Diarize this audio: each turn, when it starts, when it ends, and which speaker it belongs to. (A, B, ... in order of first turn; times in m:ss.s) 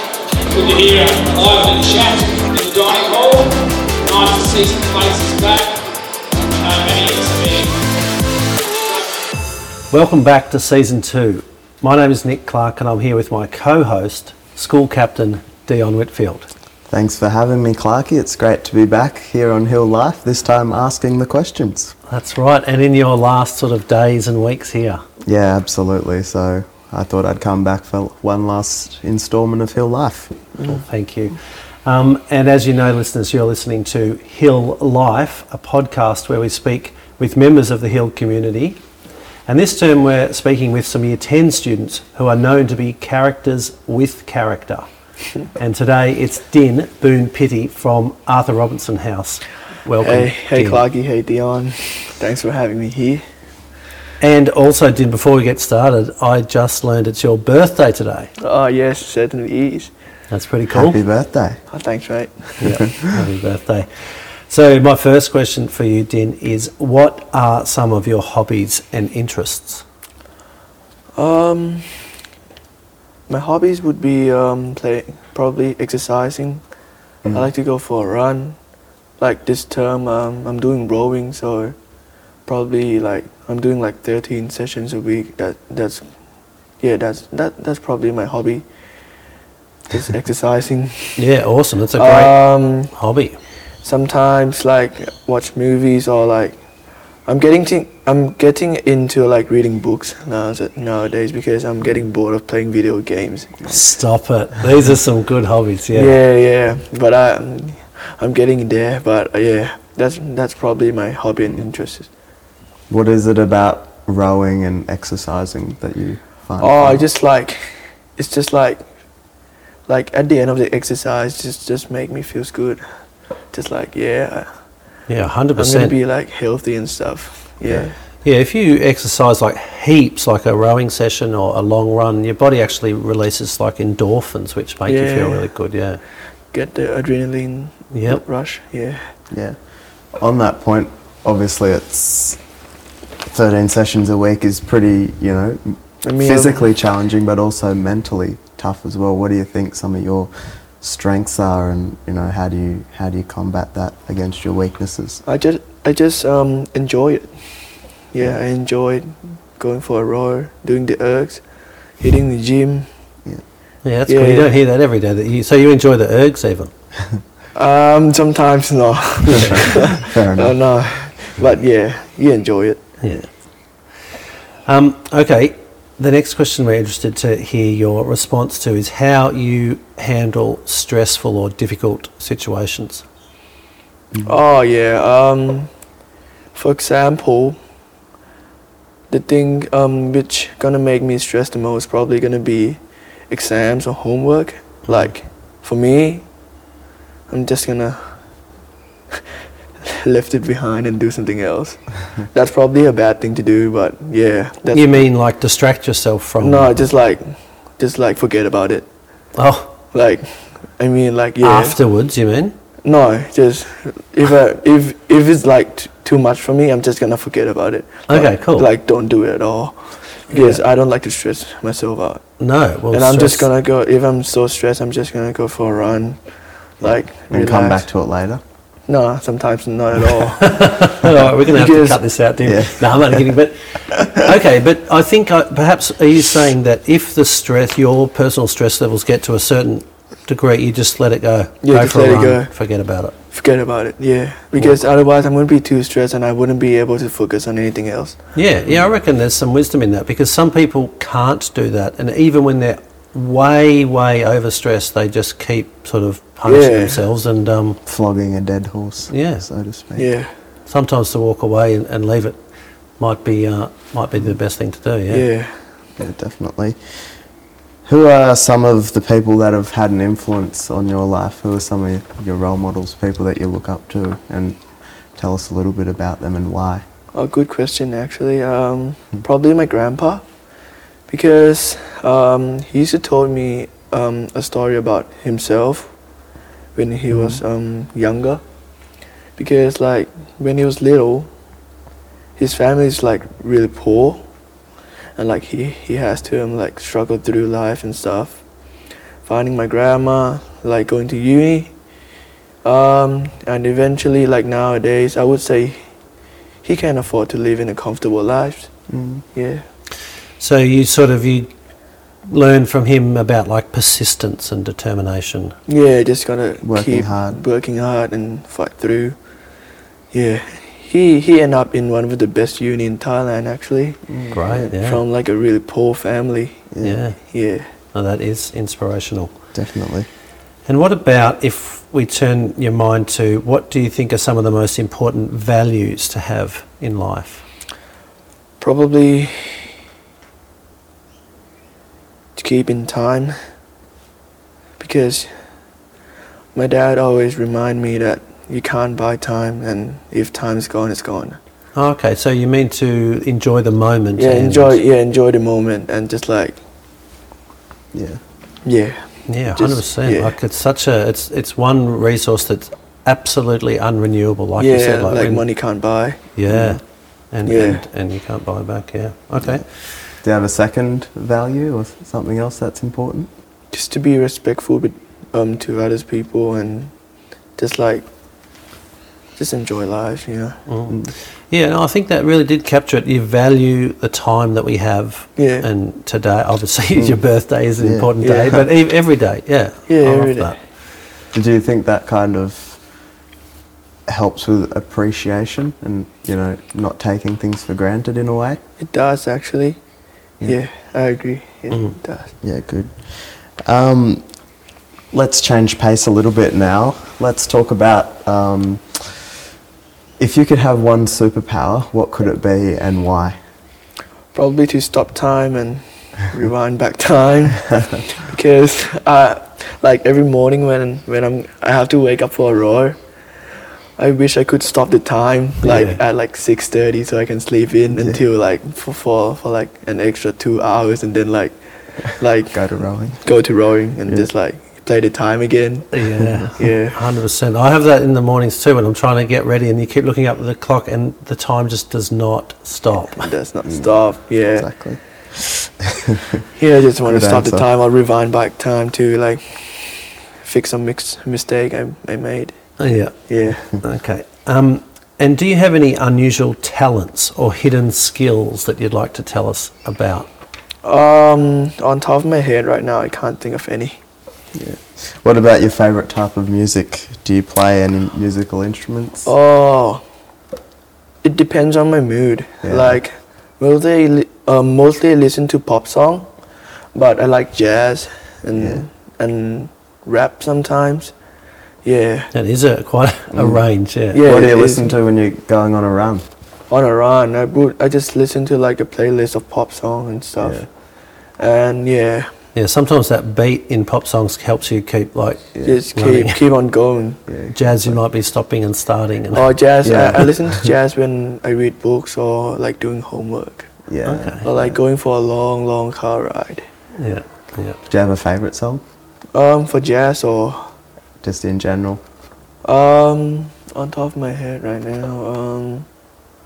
0:00.5-0:05.8 A
0:06.6-0:07.8 A
0:08.8-0:09.2 A
0:09.9-0:16.5 B
0:16.9-0:21.9 C
0:22.1-0:25.0 B
0:25.2-0:30.3 C
0:30.6-0:38.8 B
0:39.5-0:44.8 B
0:45.6-0:50.8 B
0:50.0-0:53.2 D
0:54.2-0:58.3 B
0:58.4-0:59.9 D
1:00.3-1:01.0 B
1:00.7-1:01.6 C
1:01.7-1:02.6 D
1:02.6-1:03.9 B
1:02.6-1:03.2 C
1:04.5-1:09.8 B
1:11.2-1:11.9 D
1:13.3-1:16.6 D
1:17.3-1:18.6 D
1:19.2-1:21.8 D
1:22.4-1:26.1 D
1:26.8-1:28.6 D
1:29.9-1:31.2 D
1:31.2-1:33.4 B
1:31.9-1:32.9 D
1:33.8-1:36.6 D
1:37.2-1:43.8 D
1:43.6-1:46.2 B
1:45.9-1:52.1 D
1:52.9-1:57.1 C
1:56.6-1:57.6 D
1:58.2-1:58.8 D
1:59.9-2:02.8 D
2:03.5-2:04.5 D
2:05.1-2:06.0 B
2:05.6-2:07.9 D
2:08.2-2:16.0 B
2:14.9-2:15.5 D
2:16.5-2:19.0 D
2:17.9-2:18.2 B
2:19.3-2:19.6 C
2:20.2-2:22.4 C
2:23.3-2:35.2 C
2:26.0-2:26.7 D
2:35.2-2:37.3 D
2:38.1-2:41.4 D
2:42.0-2:42.9 D
2:43.8-2:46.7 B
2:44.0-2:44.5 D
2:47.5-2:52.8 D
2:49.2-2:49.7 B
2:49.3-2:50.6 C
2:53.0-2:53.3 B
2:54.6-3:03.0 B
3:04.2-3:05.7 D
3:06.5-3:07.6 D
3:09.1-3:16.3 D
3:17.3-3:18.0 D
3:19.8-3:21.8 D
3:22.3-3:25.0 D
3:24.7-3:26.7 B
3:26.4-3:28.8 D
3:29.4-3:29.7 B
3:29.9-3:31.8 D
3:31.4-3:32.5 B
3:32.8-3:42.2 D
3:38.1-3:38.7 B
3:40.3-3:40.6 B
3:42.4-3:43.5 B
3:42.9-3:46.2 D
3:46.8-3:48.4 C
3:46.8-3:47.8 D
3:48.9-3:50.7 D
3:50.2-4:03.1 B
3:51.5-3:52.0 D
3:52.4-3:53.3 C
4:01.6-4:02.5 D
4:03.3-4:08.2 D
4:08.3-4:17.8 B
4:16.4-4:17.0 D
4:17.8-4:20.1 C
4:19.1-4:19.5 B
4:20.0-4:20.3 D
4:20.7-4:22.4 B
4:23.0-4:25.3 B
4:25.1-4:25.6 D
4:26.0-4:26.8 C
4:27.8-4:34.6 C
4:35.2-4:36.8 C
4:37.1-4:40.2 D
4:41.1-4:45.9 D
4:46.7-4:48.4 D
4:47.1-4:47.4 C
4:49.4-4:51.3 D
4:52.4-4:54.2 D
4:55.2-4:58.4 D
4:59.2-5:01.7 D
5:02.6-5:05.8 D
5:06.6-5:08.7 D
5:08.9-5:09.2 C
5:09.3-5:09.6 D
5:10.4-5:11.5 B
5:12.3-5:15.5 B
5:15.6-5:19.2 D
5:16.6-5:17.4 C
5:20.1-5:24.0 D
5:24.1-5:24.6 C
5:24.3-5:25.0 B
5:24.6-5:26.6 D
5:26.7-5:27.0 C
5:26.8-5:27.2 B
5:27.2-5:27.7 D
5:27.9-5:29.3 B
5:29.5-5:30.1 C
5:30.7-5:37.4 B
5:38.6-5:39.7 D
5:42.4-5:43.4 D
5:44.8-5:45.3 D
5:46.5-5:51.4 D
5:51.7-5:54.8 B
5:54.2-5:56.6 D
5:57.9-5:58.2 C
5:58.6-5:59.0 D
5:59.3-6:05.5 B
5:59.6-6:00.3 D
6:04.6-6:06.2 D
6:06.3-6:06.8 B
6:06.4-6:06.8 C
6:07.3-6:09.6 B
6:07.4-6:07.8 D
6:10.2-6:13.3 C
6:13.7-6:16.9 D
6:17.6-6:18.0 D
6:19.4-6:20.6 D
6:20.7-6:30.6 B
6:25.4-6:25.7 D
6:27.8-6:28.1 C
6:28.2-6:28.7 D
6:29.9-6:30.6 D
6:31.3-6:32.8 C
6:34.1-6:38.6 C
6:38.8-6:39.8 D
6:40.5-6:42.3 D
6:42.4-6:44.2 C
6:45.1-6:49.2 C
6:50.2-6:53.4 C
6:54.3-7:03.0 D
7:04.0-7:11.6 D
7:05.6-7:06.0 B
7:12.2-7:12.6 D
7:12.4-7:13.2 C
7:13.2-7:15.9 D
7:15.9-7:23.3 B
7:16.5-7:17.0 D
7:23.2-7:24.7 D
7:23.6-7:24.0 C
7:24.5-7:26.4 C
7:26.6-7:32.5 D
7:27.0-7:27.7 C
7:32.8-7:33.2 B
7:33.3-7:33.7 D
7:33.7-7:40.3 B
7:40.8-7:44.0 D
7:44.5-7:49.3 C
7:49.2-7:50.0 D
7:51.2-7:56.3 D
7:52.6-7:53.0 C
7:56.9-8:01.1 D
7:58.6-7:58.8 C
8:01.8-8:02.3 D
8:02.3-8:04.2 B
8:03.3-8:03.6 C
8:04.1-8:04.9 D
8:04.2-8:06.2 C
8:06.7-8:10.6 D
8:10.4-8:10.6 C
8:11.4-8:12.3 D
8:12.5-8:16.4 B
8:15.5-8:15.8 C
8:15.6-8:17.2 D
8:17.3-8:18.0 C
8:17.5-8:19.5 B
8:19.3-8:23.7 D
8:19.8-8:20.7 C
8:23.9-8:24.8 C
8:24.0-8:24.4 B
8:24.4-8:26.6 D
8:27.0-8:27.8 B
8:27.9-8:28.8 C
8:29.3-8:30.7 D
8:31.2-8:32.0 C
8:32.6-8:35.9 D